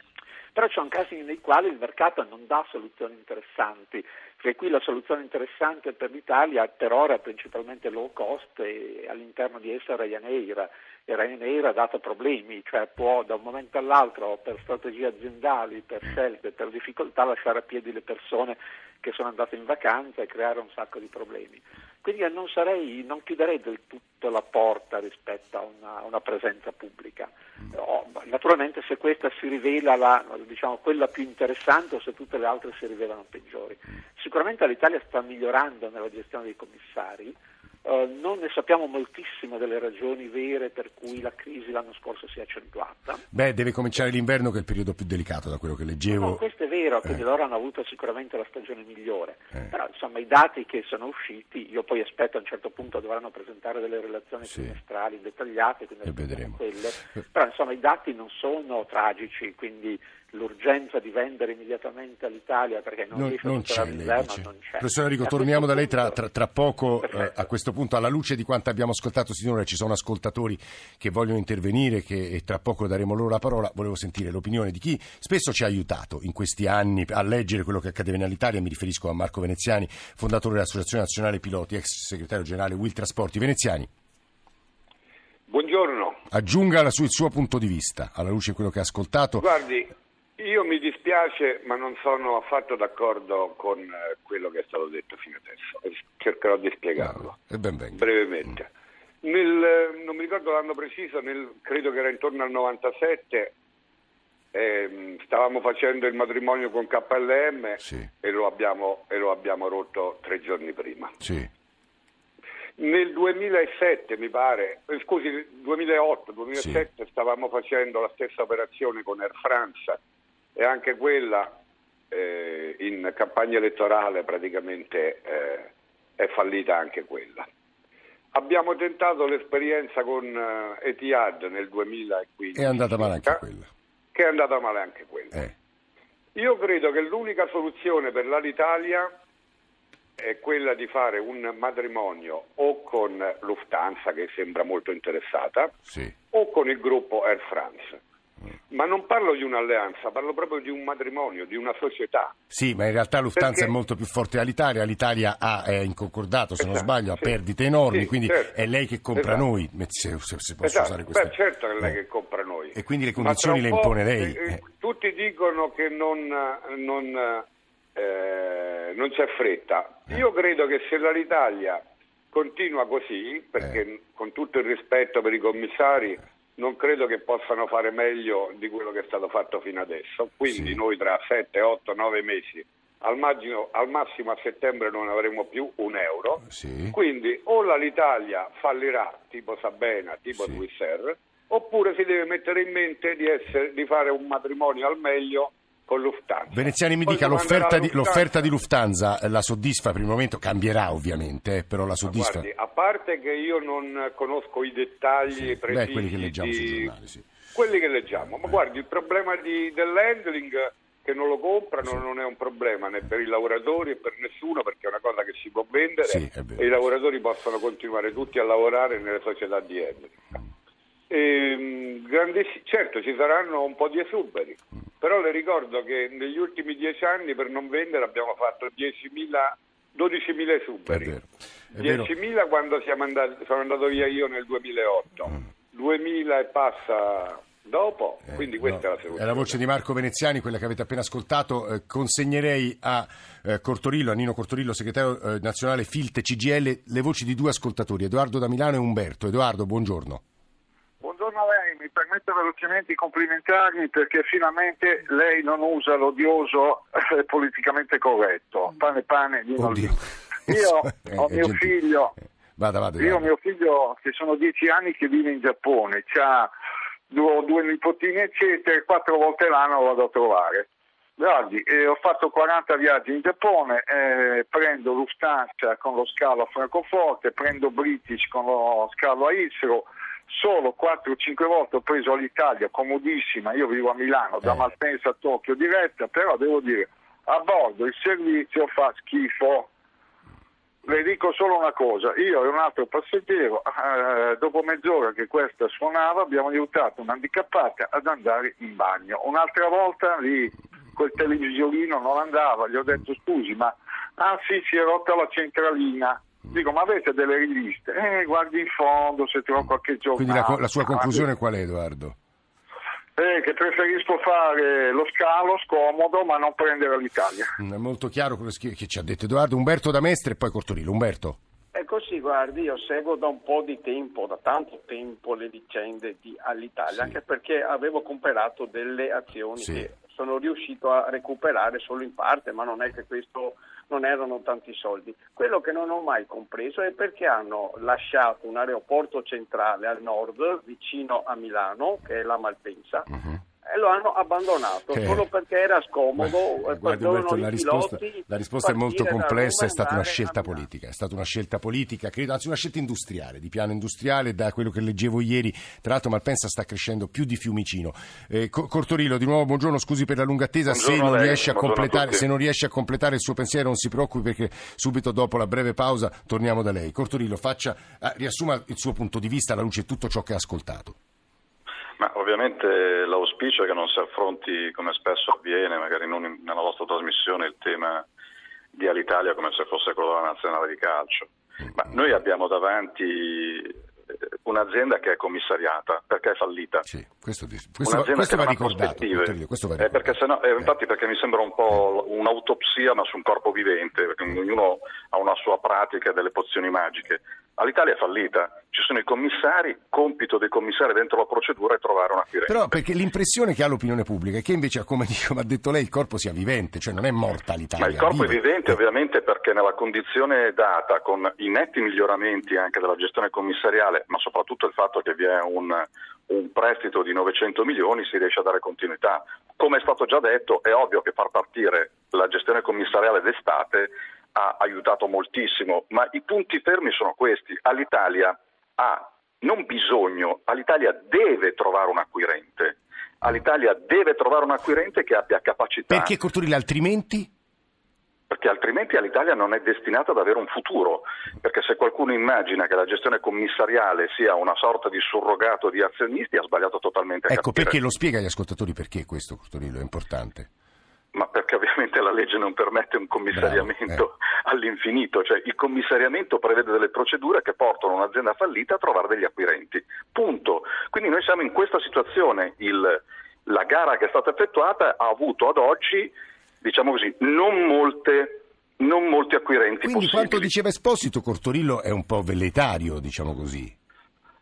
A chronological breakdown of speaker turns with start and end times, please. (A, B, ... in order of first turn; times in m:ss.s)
0:00.5-0:43.2 A
0:43.3-0:46.4 B
0:46.1-1:06.2 A
0:56.0-0:56.6 B
1:03.1-1:23.9 B
1:07.0-1:07.3 A
1:25.5-1:26.2 C
1:26.3-1:29.5 B
1:29.4-1:37.3 C
1:37.5-1:38.0 B
1:38.0-1:38.7 C
1:39.2-1:43.5 C
1:44.5-1:51.1 C
1:52.8-2:00.0 C
2:00.6-2:01.5 C
2:02.1-2:07.4 C
2:08.3-2:13.4 C
2:12.5-2:13.7 B
2:14.1-2:15.3 C
2:16.4-2:19.1 C
2:20.2-2:25.7 C
2:26.3-2:28.0 C
2:28.7-2:32.3 C
2:32.5-2:41.9 B
2:33.4-2:33.7 C
2:36.6-2:37.3 C
2:37.9-2:38.5 C
2:39.2-2:39.4 C
2:40.6-2:47.4 C
2:42.7-2:44.6 B
2:48.0-2:51.8 C
2:52.3-3:06.4 C
3:00.5-3:00.8 B
3:06.4-3:06.9 B
3:06.9-3:18.5 C
3:16.5-3:22.5 B
3:22.1-3:26.9 C
3:25.3-3:27.2 B
3:27.5-3:40.2 C
3:36.0-3:36.7 B
3:41.1-3:51.1 C
3:50.9-3:51.2 B
3:51.7-3:52.1 B
3:51.8-3:59.5 C
3:58.5-4:10.2 B
4:11.0-4:19.9 D
4:19.6-4:19.9 B
4:20.5-4:22.1 D
4:20.5-4:21.8 B
4:22.6-4:23.3 B
4:23.0-4:26.5 D
4:27.1-4:30.6 D
4:31.2-4:49.7 D
4:50.8-5:11.2 D
5:10.1-5:12.2 B
5:13.2-5:17.5 D
5:17.6-5:21.4 B
5:21.7-5:43.1 E
5:29.6-5:29.9 B
5:43.6-5:50.6 E
5:44.9-5:45.3 B
5:46.2-6:10.9 B
6:00.7-6:02.2 F
6:12.0-6:18.0 F
6:18.7-6:23.8 F
6:24.4-6:26.8 F
6:26.9-6:30.0 B
6:27.8-6:42.7 F
6:42.5-6:48.4 B
6:47.8-7:16.1 F
7:15.9-7:17.3 B
7:18.3-7:27.8 F
7:27.3-7:30.5 B
7:31.1-7:50.5 F
7:33.3-7:34.0 B
7:49.8-7:53.7 B